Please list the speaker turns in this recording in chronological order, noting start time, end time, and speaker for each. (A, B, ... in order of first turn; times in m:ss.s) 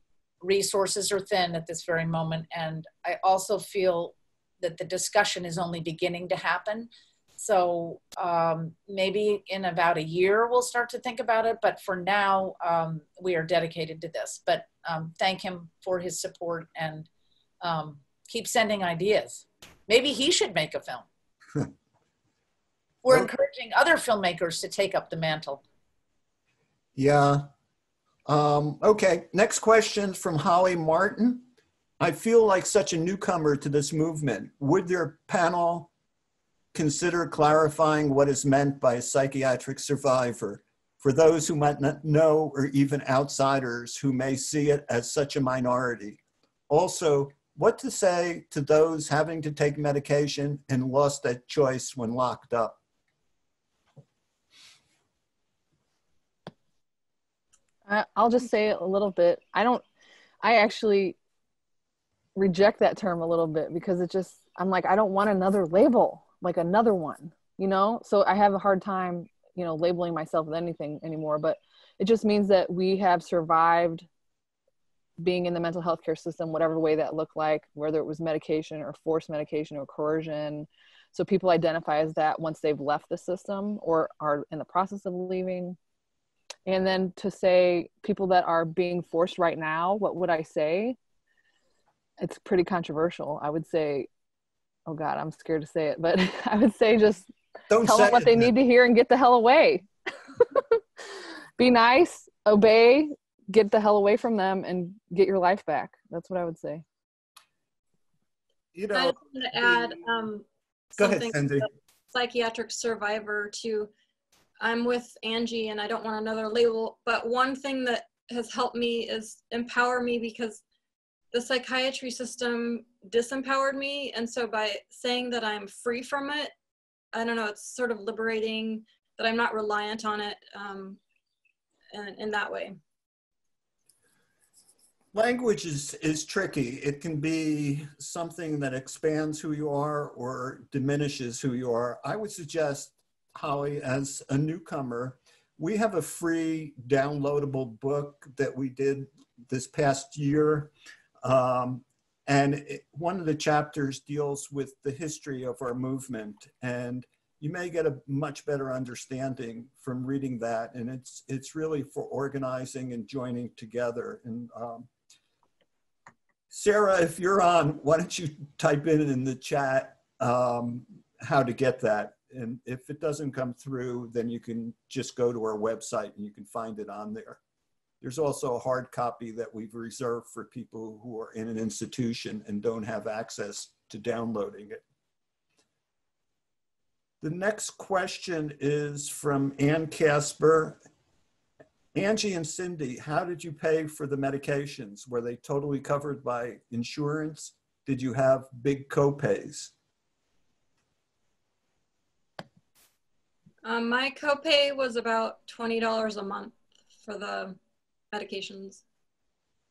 0:00.4-0:17.1 A
0:17.6-0:21.0 A
0:23.0-0:25.6 A
0:26.9-0:27.5 B
0:28.2-0:31.4 B
0:32.0-0:35.9 B
0:36.7-0:52.8 B
0:57.8-0:59.8 C
1:00.4-1:01.2 C
1:02.3-1:14.1 C
1:15.2-1:25.8 C
1:26.6-1:31.0 C
1:32.2-1:34.1 C
1:34.9-1:37.3 C
1:37.7-1:38.5 B
1:37.8-1:39.9 C
1:40.5-1:40.8 C
1:41.6-1:46.8 C
1:48.7-1:50.0 B
1:48.9-1:53.9 D
1:51.0-1:51.7 B
1:54.6-2:00.6 D
2:01.3-2:06.5 D
2:07.1-2:11.0 D
2:11.9-2:12.8 D
2:15.1-2:30.7 B
2:31.2-2:44.9 B
2:46.5-2:57.4 B
2:58.0-3:04.8 B
3:07.2-3:10.8 B
3:11.9-3:19.7 B
3:23.6-3:27.6 D
3:28.1-3:28.8 D